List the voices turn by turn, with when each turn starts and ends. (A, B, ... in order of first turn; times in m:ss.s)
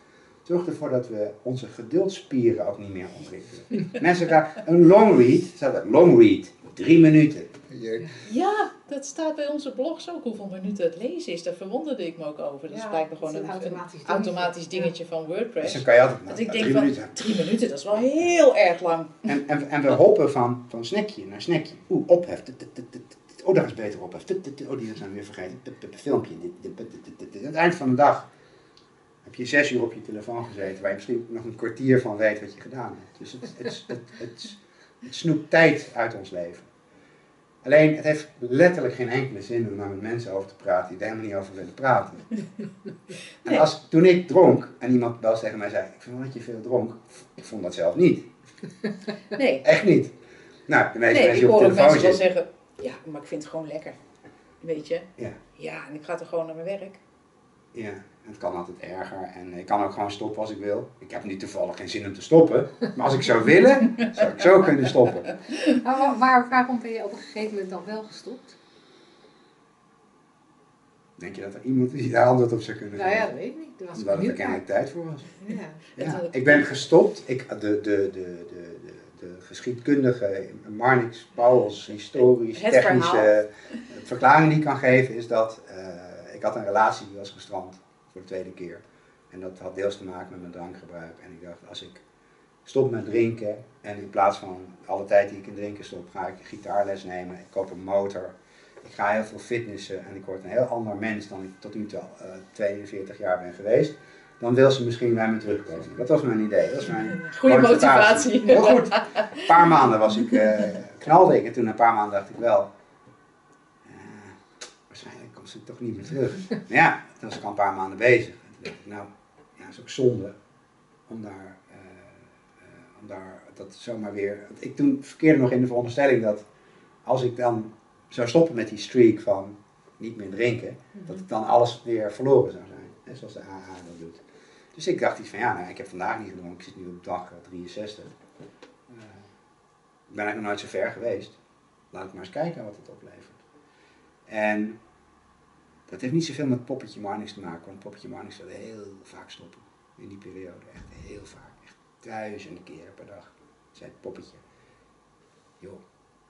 0:00.4-0:08.1 A
0:08.2-0:19.2 B
0:12.7-0:14.9 C
0:15.6-0:17.3 A
0:19.2-0:28.3 A
0:29.2-0:36.7 A
0:37.6-0:42.4 A
0:43.4-0:48.3 A
0:49.3-0:49.7 B
0:49.6-0:50.1 A
0:50.7-0:52.2 A
0:51.1-0:54.0 B
0:54.6-0:57.0 B
0:57.7-1:05.3 A
1:05.7-1:08.6 C
1:11.2-1:13.3 A
1:12.9-1:14.6 C
1:13.9-1:15.3 A
1:15.4-1:15.8 C
1:16.0-1:16.6 B
1:16.0-1:32.0 A
1:22.5-1:23.3 B
1:32.6-1:52.7 A
1:47.2-1:49.5 B
1:53.8-2:00.4 A
2:01.1-2:06.4 A
2:07.0-2:14.2 A
2:14.7-2:18.1 A
2:18.9-2:19.2 A
2:20.1-2:21.4 A
2:21.9-2:23.4 A
2:24.3-2:24.8 A
2:25.9-2:34.4 A